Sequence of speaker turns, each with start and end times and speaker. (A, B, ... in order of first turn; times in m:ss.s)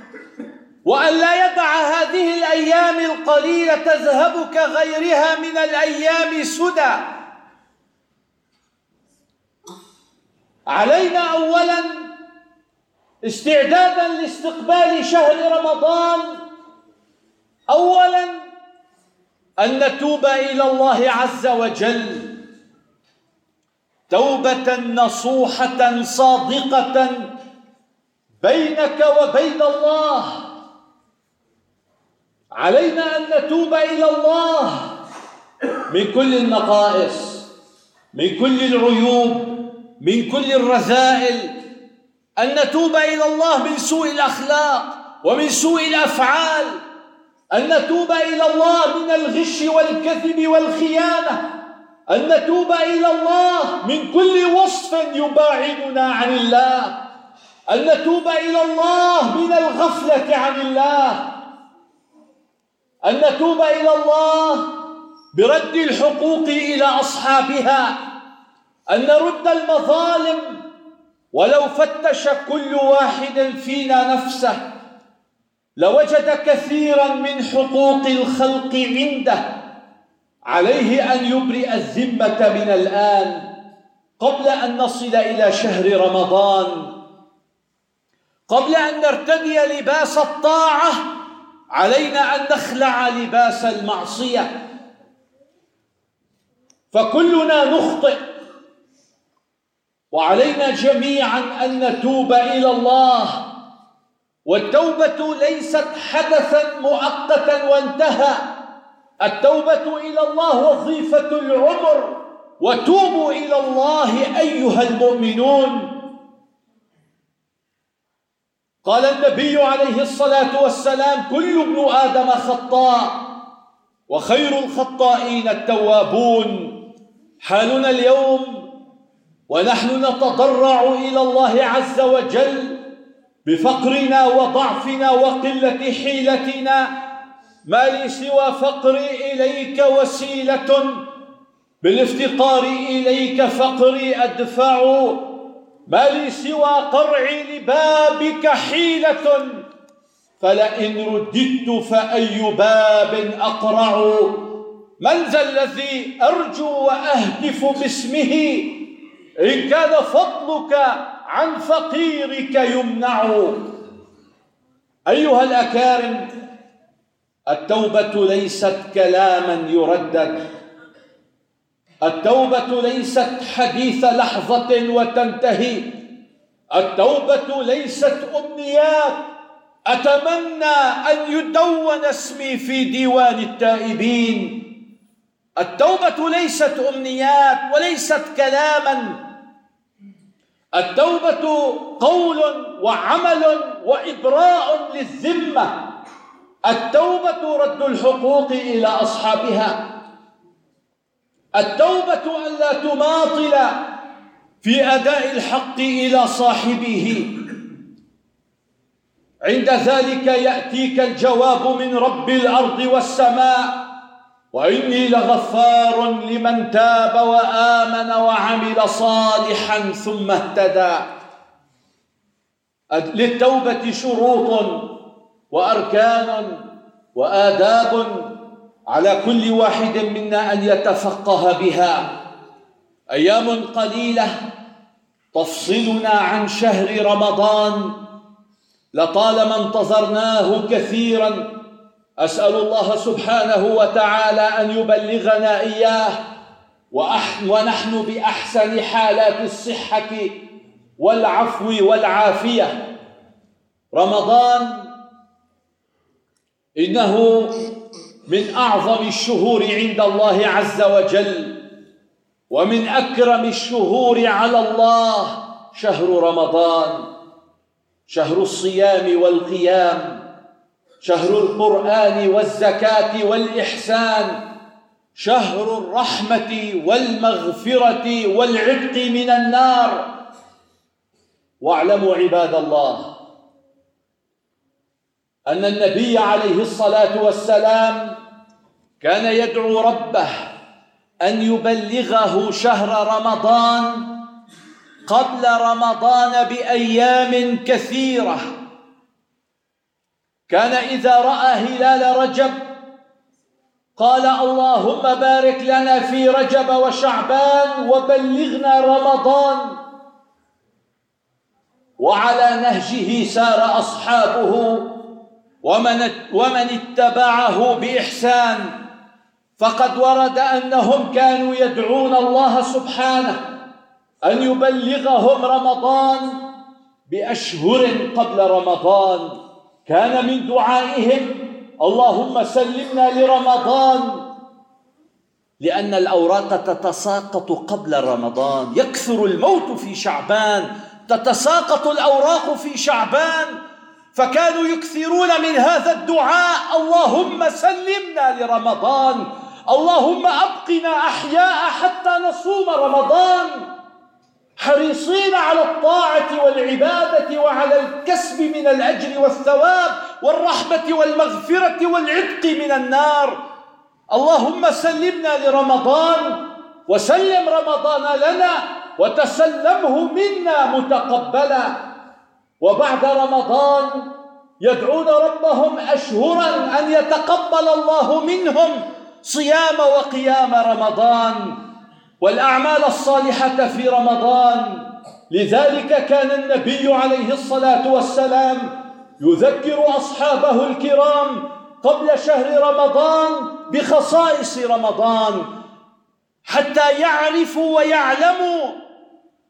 0:00.8-0:07.1 A
0:10.7-0:12.1 A
0:13.2-0:16.4 A
0:17.7-0:18.4 A
0:19.6-0:22.3 A
0:24.1-0:27.3 A
0:28.4-0:30.5 A
0:32.6-0:34.9 A
0:35.9-0:37.5 A
0:38.1-0:41.6 A
0:42.4-0:46.8 A
0:47.5-0:51.5 A
0:52.1-0:56.9 A
0:57.7-1:01.3 A
1:03.0-1:04.7 A
1:05.3-1:08.0 A
1:08.9-1:10.6 A
1:11.3-1:14.6 A
1:15.8-1:19.5 A
1:20.5-1:23.5 A
1:24.2-1:26.9 A
1:28.5-1:31.1 A
1:31.7-1:34.5 A
1:36.9-1:38.2 A
1:40.1-1:43.5 A
1:44.5-1:48.5 A
1:49.2-1:55.9 A
1:58.8-2:03.3 A
2:04.1-2:06.8 A
2:07.4-2:08.6 A
2:09.5-2:12.8 A
2:13.5-2:16.9 A
2:17.7-2:21.0 A
2:21.8-2:25.2 A
2:25.9-2:29.6 A
2:30.4-2:34.5 A
2:35.0-2:38.8 A
2:39.4-2:43.6 A
2:45.1-2:46.3 A
2:47.5-2:50.4 A
2:52.0-2:55.9 A
2:56.7-2:59.3 A
2:59.9-3:04.6 A
3:05.6-3:09.2 A
3:10.8-3:15.8 A
3:16.7-3:19.9 A
3:21.6-3:23.7 A
3:24.6-3:27.3 A
3:29.4-3:33.8 A
3:34.5-3:41.0 A
3:42.9-3:44.9 A
3:45.5-3:46.6 A
3:47.2-3:48.3 A
3:48.9-3:52.2 A
3:53.1-3:54.4 A
3:55.3-3:58.0 A
3:58.9-4:01.5 A
4:02.2-4:06.2 A
4:06.9-4:10.4 A
4:11.0-4:12.9 A
4:13.9-4:14.9 A
4:16.8-4:17.7 A
4:18.3-4:21.6 A
4:22.5-4:27.1 A
4:28.1-4:30.2 A
4:31.0-4:34.4 A
4:35.2-4:40.1 A
4:41.6-4:43.1 A
4:45.5-4:48.2 A
4:49.0-4:50.3 A
4:51.2-4:54.1 A
4:55.1-4:58.4 A
5:00.5-5:02.6 A
5:04.0-5:09.8 A
5:12.0-5:14.9 A
5:15.6-5:18.7 A
5:19.6-5:23.4 A
5:24.2-5:26.4 A
5:27.1-5:34.3 A
5:35.6-5:43.6 A
5:44.1-5:53.7 A
5:54.6-6:03.4 A
6:04.1-6:11.9 A
6:12.6-6:14.1 A
6:14.6-6:21.6 A
6:22.2-6:35.5 A
6:36.5-6:38.8 A